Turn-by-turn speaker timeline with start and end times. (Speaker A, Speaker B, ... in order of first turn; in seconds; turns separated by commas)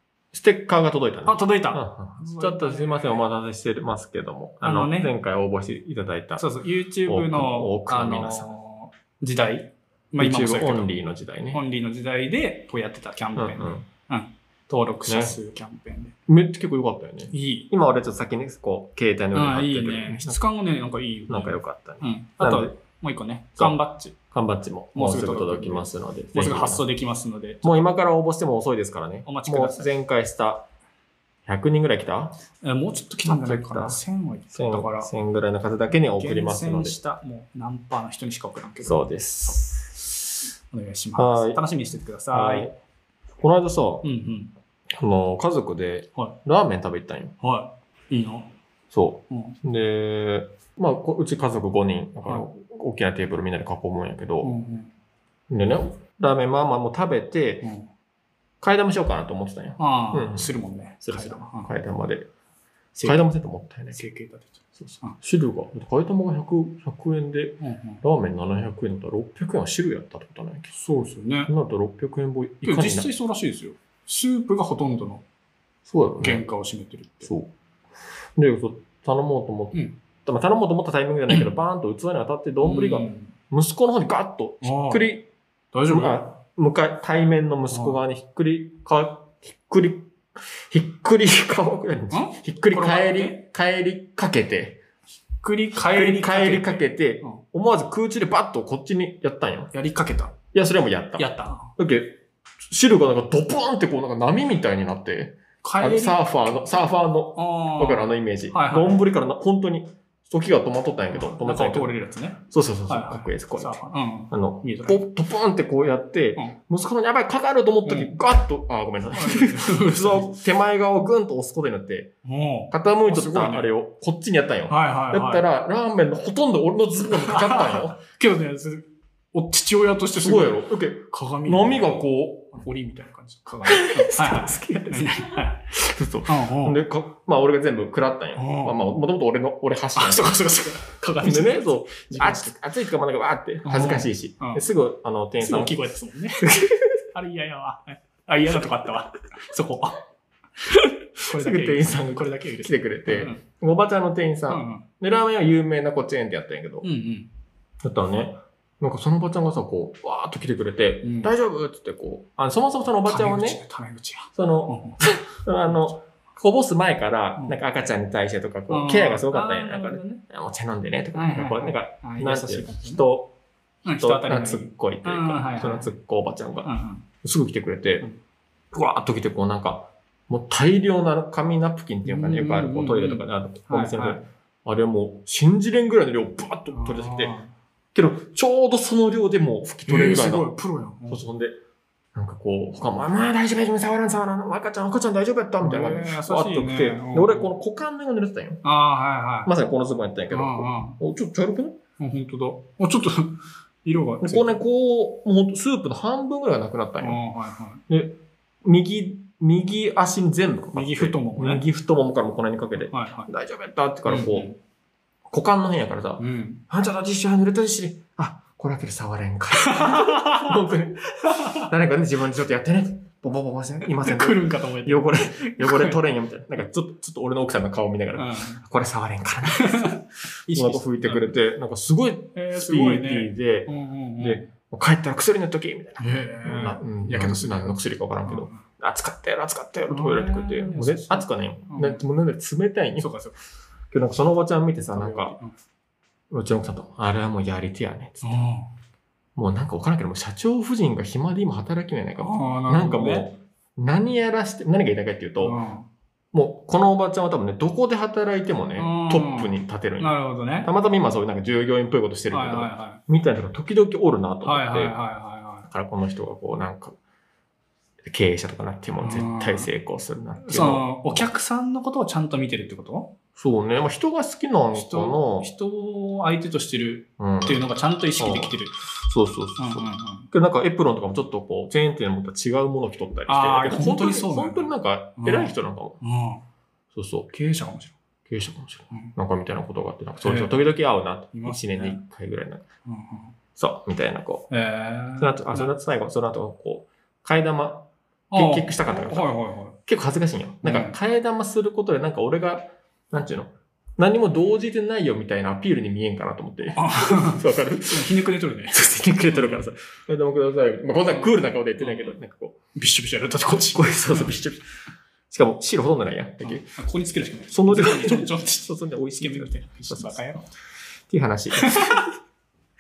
Speaker A: 0.3-6.5, Speaker B: 1.3-3.2, Speaker B: 4.6-5.1, Speaker B: 6.4-10.9, Speaker A: 7.1-8.5, Speaker A: 10.2-11.6, Speaker B: 11.5-16.1, Speaker A: 13.4-13.9, Speaker A: 15.1-15.4, Speaker A: 16.3-20.4, Speaker B: 17.3-17.7, Speaker B: 19.3-24.2, Speaker A: 21.3-22.8, Speaker A: 24.3-26.9, Speaker B: 24.9-27.8, Speaker A: 27.6-30.7, Speaker B: 29.3-29.9, Speaker A: 31.5-32.4, Speaker B: 32.6-35.1, Speaker A: 33.2-34.0, Speaker A: 34.5-37.0, Speaker B: 36.1-42.7, Speaker A: 38.8-40.0, Speaker A: 41.2-41.6, Speaker A: 42.3-42.8, Speaker A: 43.4-44.1, Speaker B: 44.0-44.5, Speaker A: 45.0-47.4, Speaker B: 47.4-48.5, Speaker A: 48.9-54.5, Speaker B: 49.3-49.6, Speaker B: 54.4-54.9, Speaker A: 55.5-57.7, Speaker B: 57.6-57.9, Speaker A: 58.6-62.3, Speaker B: 59.8-61.7, Speaker B: 63.0-63.2, Speaker A: 63.0-64.0, Speaker B: 64.0-65.2, Speaker A: 64.8-70.7, Speaker B: 67.6-68.0, Speaker B: 70.7-71.5, Speaker A: 71.5-73.1, Speaker B: 72.6-75.2, Speaker A: 75.9-76.5, Speaker B: 76.2-77.3, Speaker A: 77.2-77.5, Speaker A: 78.4-85.3, Speaker B: 82.6-83.3, Speaker B: 84.6-85.0, Speaker B: 85.7-86.2, Speaker A: 85.9-94.8, Speaker B: 87.7-88.0, Speaker B: 92.1-93.4, Speaker B: 95.4-97.4, Speaker A: 95.8-99.7, Speaker B: 99.7-100.3, Speaker A: 100.5-112.0, Speaker B: 101.2-101.7, Speaker B: 105.6-106.3, Speaker B: 107.3-109.0, Speaker B: 111.1-115.0, Speaker A: 112.5-122.1, Speaker B: 117.8-118.2, Speaker B: 119.1-120.4, Speaker B: 122.2-123.7, Speaker A: 122.7-128.0, Speaker B: 124.7-125.5, Speaker B: 127.1-131.9, Speaker A: 130.2-132.6, Speaker B: 132.5-135.7, Speaker A: 133.7-140.5, Speaker B: 136.3-136.8, Speaker B: 138.4-138.8, Speaker B: 140.0-142.6, Speaker A: 141.2-145.8, Speaker B: 143.6-144.6, Speaker B: 145.4-146.5, Speaker A: 146.4-147.0, Speaker B: 147.1-150.0, Speaker B: 151.2-153.4, Speaker A: 151.3-156.9, Speaker B: 154.5-154.9, Speaker B: 156.8-157.3, Speaker A: 157.8-163.6, Speaker B: 161.0-161.3, Speaker B: 163.0-165.0, Speaker A: 164.3-173.3, Speaker B: 168.7-170.2, Speaker B: 171.1-173.0, Speaker B: 173.8-175.9, Speaker A: 173.9-176.7, Speaker B: 176.6-177.1, Speaker A: 177.2-178.1, Speaker A: 178.7-187.4, Speaker B: 182.1-184.2, Speaker B: 186.7-187.5, Speaker A: 187.9-190.5, Speaker B: 189.9-191.2, Speaker A: 191.1-191.6, Speaker A: 192.2-198.6, Speaker B: 195.6-197.5, Speaker B: 198.6-199.5, Speaker A: 199.4-201.8, Speaker B: 200.3-201.0, Speaker B: 202.0-204.6, Speaker A: 204.2-207.2, Speaker B: 207.0-207.8, Speaker A: 207.9-214.5, Speaker B: 210.7-211.6, Speaker B: 212.9-213.3, Speaker B: 214.1-214.6, Speaker A: 215.3-243.1, Speaker B: 216.2-216.6, Speaker B: 219.6-220.7, Speaker B: 221.2-221.6, Speaker B: 223.8-226.0, Speaker B: 228.1-228.6, Speaker B: 229.5-231.3, Speaker B: 232.3-234.5, Speaker B: 236.0-238.6, Speaker B: 239.9-242.0, Speaker B: 243.0-243.4, Speaker A: 243.9-245.4, Speaker B: 244.9-245.5, Speaker A: 246.3-248.5, Speaker B: 248.2-248.7, Speaker A: 249.4-255.6, Speaker B: 252.2-253.3, Speaker B: 255.4-255.9, Speaker A: 256.3-265.0, Speaker B: 258.8-260.7, Speaker B: 262.3-263.0, Speaker B: 264.4-265.7, Speaker A: 265.7-267.0, Speaker A: 268.1-271.3, Speaker B: 269.0-269.7, Speaker B: 270.4-273.1, Speaker A: 273.4-275.5, Speaker B: 274.7-278.8, Speaker A: 277.2-277.6, Speaker A: 278.2-286.0, Speaker B: 279.6-280.3, Speaker B: 283.3-286.4, Speaker A: 286.9-287.3, Speaker B: 287.3-287.9, Speaker A: 288.3-292.6, Speaker B: 290.2-290.5, Speaker B: 291.3-292.0, Speaker B: 292.9-293.3, Speaker A: 293.6-294.5, Speaker B: 294.5-295.7, Speaker A: 295.2-299.3, Speaker B: 298.3-299.8, Speaker A: 299.9-312.6, Speaker B: 300.6-301.0, Speaker B: 306.8-309.6, Speaker B: 311.1-312.2, Speaker B: 312.8-314.4, Speaker A: 313.5-314.7, Speaker A: 315.3-316.8, Speaker B: 316.4-320.5, Speaker A: 317.5-320.2, Speaker A: 321.1-322.1, Speaker B: 321.6-322.1